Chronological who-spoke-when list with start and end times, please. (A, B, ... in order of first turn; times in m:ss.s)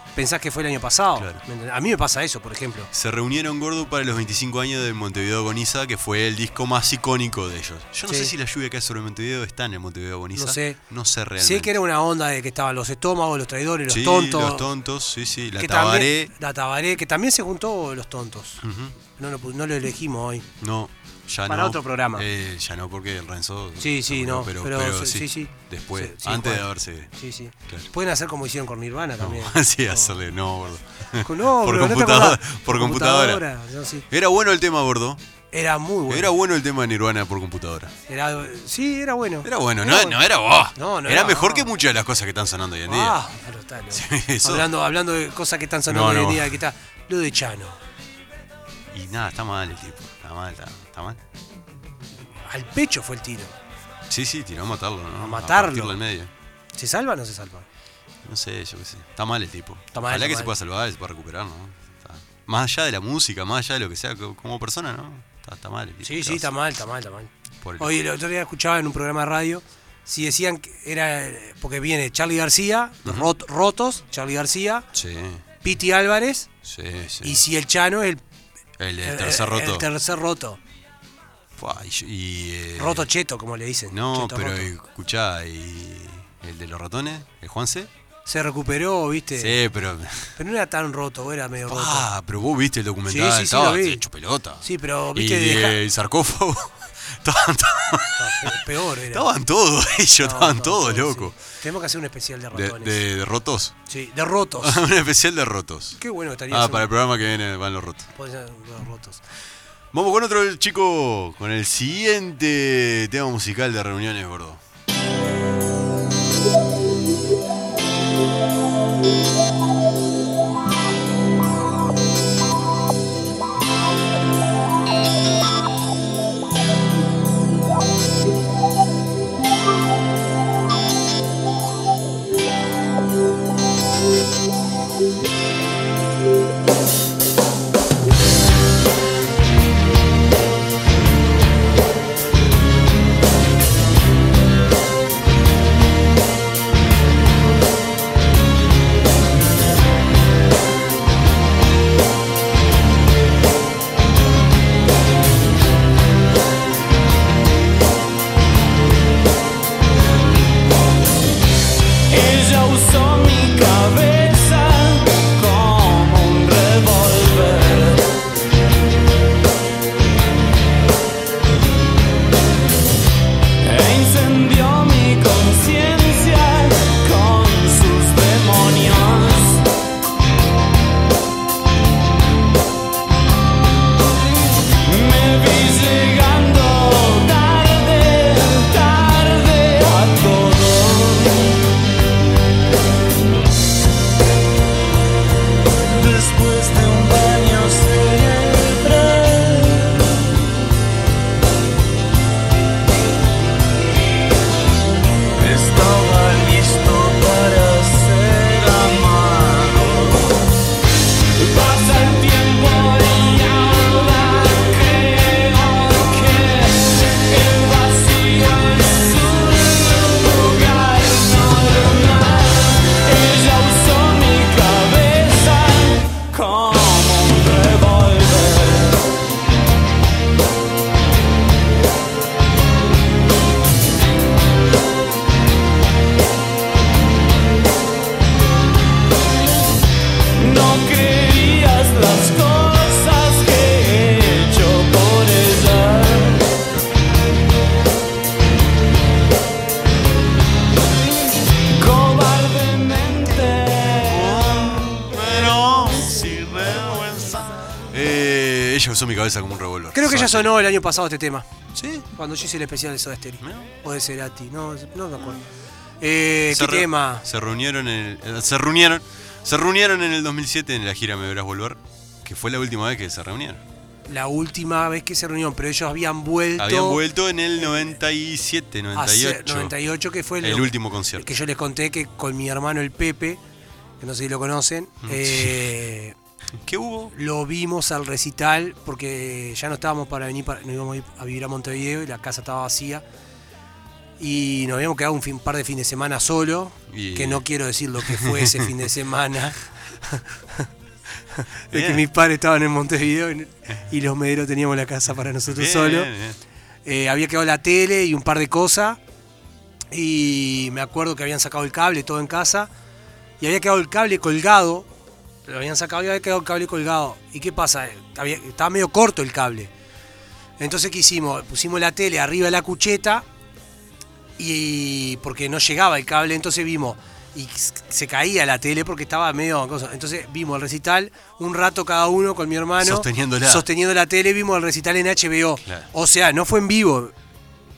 0:00.1-0:02.9 A
0:01.2-0:01.4 B
0:02.9-0:11.7 B
0:08.1-0:08.3 A
0:10.3-0:10.8 A
0:11.4-0:14.7 A
0:13.9-0:16.3 B
0:15.6-0:20.4 A
0:18.6-0:19.0 B
0:20.6-0:27.1 B
0:21.5-0:22.2 A
0:23.8-0:30.1 A
0:29.2-0:33.4 B
0:31.2-0:34.0 A
0:34.1-0:35.2 B
0:35.5-0:36.3 A
0:36.1-0:37.9 B
0:38.1-0:40.2 A
0:39.4-0:43.2 B
0:40.7-0:41.7 A
0:42.9-0:47.8 A
0:43.9-0:44.7 B
0:45.9-0:46.6 B
0:48.9-0:51.2 B
0:52.4-0:53.5 A
0:54.1-0:56.3 B
0:55.2-0:56.0 A
0:56.7-0:57.6 A
0:58.2-1:06.5 B
0:59.9-1:00.5 A
1:06.0-1:14.8 A
1:07.6-1:07.9 B
1:13.0-1:13.3 B
1:14.9-1:15.4 B
1:15.6-1:16.5 A
1:16.6-1:17.4 B
1:17.2-1:18.2 A
1:18.8-1:19.9 B
1:19.0-1:20.6 A
1:21.6-1:23.1 B
1:22.8-1:24.7 A
1:23.9-1:27.9 B
1:28.2-1:29.6 A
1:29.3-1:30.4 B
1:30.4-1:32.0 A
1:31.7-1:38.6 B
1:33.1-1:34.0 A
1:34.6-1:35.8 A
1:38.2-1:39.3 A
1:39.1-1:41.3 B
1:40.2-1:43.0 A
1:42.5-1:43.8 B
1:43.9-1:44.8 A
1:44.6-1:48.1 B
1:46.0-1:46.9 A
1:48.1-1:49.2 A
1:49.9-1:54.6 B
2:42.1-2:48.1 C
2:53.6-2:59.6 C
3:04.8-3:11.6 C
3:15.9-3:20.1 C
3:25.4-3:30.3 C
3:31.4-3:49.0 C
4:00.4-4:06.4 C
4:11.7-4:16.7 C
4:14.0-4:20.5 B
4:19.9-4:21.4 A
4:21.7-4:22.1 B
4:22.2-4:25.4 A
4:23.4-4:23.7 B
4:25.2-4:25.4 B
4:26.0-4:27.2 A
4:26.5-4:33.6 B
4:34.1-4:37.0 A
4:36.6-4:39.8 B
4:37.6-4:37.8 A
4:38.9-4:43.4 A
4:40.4-4:41.3 B
4:44.0-4:46.1 A
4:45.0-4:45.8 B
4:46.6-4:47.1 B
4:47.1-4:53.0 A
4:54.2-5:00.7 A
4:56.9-4:57.4 B
4:58.0-4:58.6 B
5:01.4-5:06.1 A
5:01.7-5:02.0 B
5:05.5-5:06.4 B
5:06.8-5:09.0 A
5:09.9-5:12.7 A
5:13.4-5:14.9 A
5:15.4-5:19.7 A
5:20.6-5:23.2 A
5:24.4-5:37.1 A
5:32.8-5:33.6 B